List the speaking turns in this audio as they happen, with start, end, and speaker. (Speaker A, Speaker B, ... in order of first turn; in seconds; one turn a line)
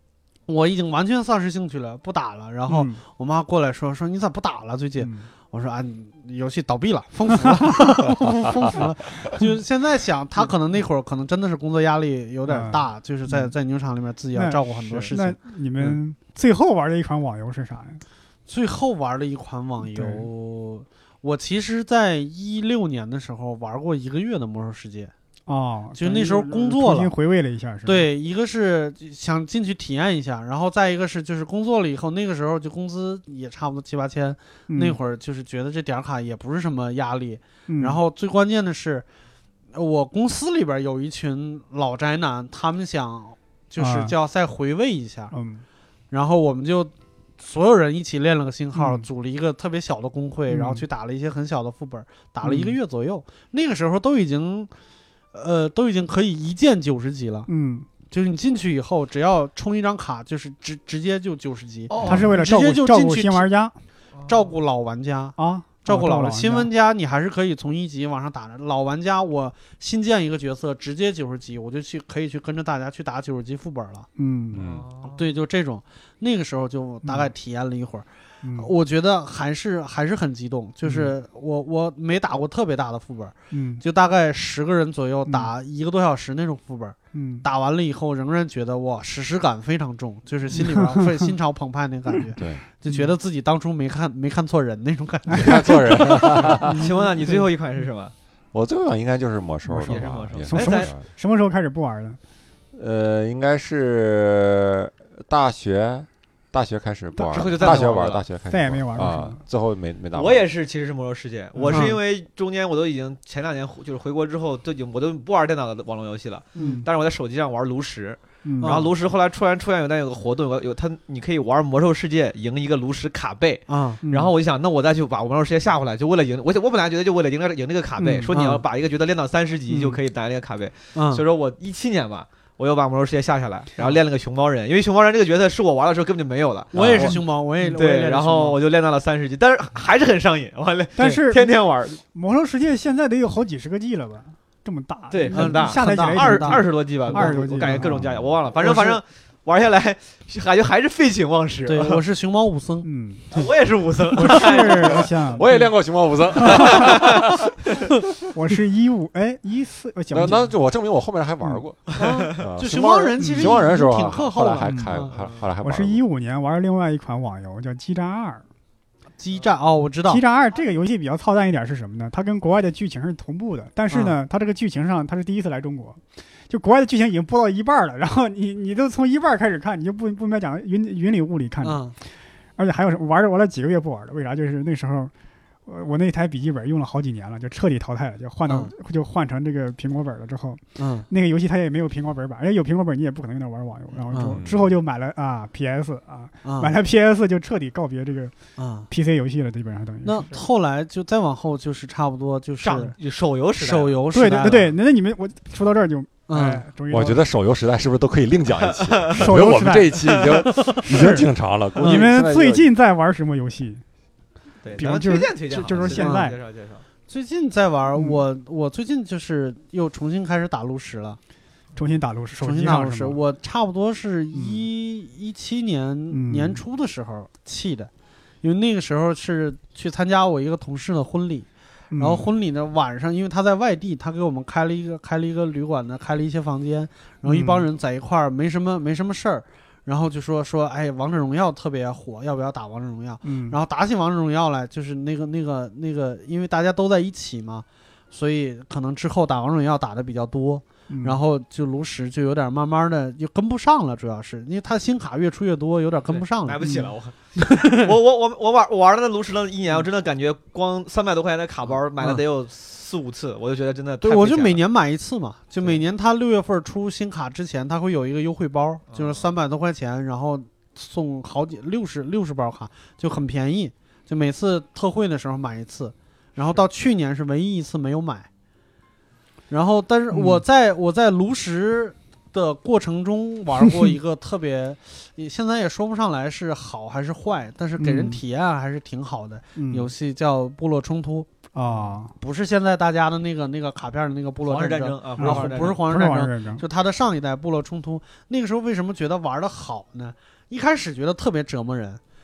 Speaker A: 0.5-16.0
Speaker B: 2.7-3.0
Speaker B: 5.0-5.3
Speaker B: 12.5-13.5
Speaker B: 14.3-18.0
Speaker A: 18.5-25.1
Speaker B: 19.8-20.3
Speaker B: 25.5-28.1
Speaker A: 25.9-27.1
Speaker A: 27.9-39.0
Speaker B: 34.7-35.0
Speaker B: 37.7-38.0
Speaker A: 39.7-45.3
Speaker B: 43.8-44.1
Speaker B: 45.3-45.6
Speaker A: 46.1-54.7
Speaker B: 48.7-49.0
Speaker B: 50.5-50.8
Speaker B: 52.4-52.8
Speaker A: 55.3-57.5
Speaker B: 57.5-57.9
Speaker A: 58.1-63.4
Speaker C: 61.9-62.4
Speaker B: 62.0-63.7
Speaker C: 64.2-64.5
Speaker A: 64.3-74.1
Speaker B: 65.4-66.7
Speaker B: 74.2-74.6
Speaker D: 74.5-74.9
Speaker C: 74.6-75.3
Speaker A: 75.2-78.0
Speaker B: 77.0-77.3
Speaker B: 78.4-78.7
Speaker A: 78.6-96.4
Speaker B: 80.8-81.1
Speaker B: 83.5-83.8
Speaker B: 87.1-87.4
Speaker B: 90.5-91.2
Speaker D: 92.4-92.6
Speaker B: 95.3-95.7
Speaker D: 95.3-96.7
Speaker B: 96.5-97.4
Speaker C: 96.6-98.1
Speaker D: 98.5-101.0
Speaker B: 99.7-102.2
Speaker C: 99.8-100.9
Speaker D: 102.7-110.5
Speaker B: 107.1-107.9
Speaker C: 107.3-108.2
Speaker B: 108.5-109.4
Speaker C: 110.1-142.0
Speaker B: 111.5-111.9
Speaker A: 111.7-112.0
Speaker A: 116.6-116.8
Speaker B: 116.6-116.9
Speaker B: 118.4-118.8
Speaker A: 118.6-118.9
Speaker A: 123.7-124.0
Speaker B: 124.0-124.3
Speaker A: 128.3-128.6
Speaker B: 129.7-130.0
Speaker A: 130.9-131.2
Speaker A: 136.7-138.6
Speaker B: 137.0-137.7
Speaker B: 141.0-148.1
Speaker C: 145.1-152.0
Speaker A: 145.3-148.0
Speaker A: 148.6-149.0
Speaker A: 151.7-153.4
Speaker B: 152.8-153.3
Speaker C: 153.3-155.3
Speaker B: 154.1-155.7
Speaker A: 154.3-154.5
Speaker D: 155.3-157.5
Speaker B: 156.4-156.9
Speaker C: 156.6-157.2
Speaker B: 158.3-160.5
Speaker D: 160.1-166.0
Speaker C: 161.9-162.4
Speaker A: 161.9-165.2
Speaker B: 163.2-163.6
Speaker B: 164.6-164.9
Speaker B: 165.6-168.4
Speaker A: 169.2-170.2
Speaker B: 170.1-181.8
Speaker A: 173.9-174.2
Speaker A: 181.6-181.9
Speaker B: 182.6-185.1
Speaker B: 185.7-198.3
Speaker A: 188.5-188.7
Speaker A: 190.8-191.1
Speaker A: 194.1-194.4
Speaker D: 194.2-194.7
Speaker A: 196.4-196.7
Speaker A: 198.6-198.9
Speaker B: 198.9-200.3
Speaker A: 200.0-202.9
Speaker C: 202.6-204.0
Speaker A: 203.6-204.7
Speaker B: 204.1-207.2
Speaker A: 206.3-206.6
Speaker D: 206.9-212.7
Speaker C: 208.7-209.2
Speaker B: 209.1-210.2
Speaker C: 210.1-210.4
Speaker B: 210.8-211.3
Speaker A: 211.8-212.1
Speaker B: 211.8-213.8
Speaker C: 214.6-216.8
Speaker B: 214.8-216.4
Speaker A: 215.9-216.3
Speaker A: 217.1-221.2
Speaker B: 217.9-218.2
Speaker B: 221.8-223.2
Speaker A: 222.4-227.9
Speaker B: 224.3-224.6
Speaker B: 226.1-226.6
Speaker A: 228.4-256.9
Speaker B: 231.9-232.3
Speaker B: 237.3-237.6
Speaker B: 243.2-243.6
Speaker B: 250.9-251.2
Speaker C: 256.1-264.6
Speaker A: 264.0-278.3
Speaker C: 268.9-269.3
Speaker A: 279.5-291.3
Speaker B: 280.1-280.4
Speaker B: 287.8-288.2
Speaker B: 289.6-289.9
Speaker B: 291.5-292.1
Speaker A: 292.1-302.0
Speaker C: 294.4-295.8
Speaker B: 295.2-296.6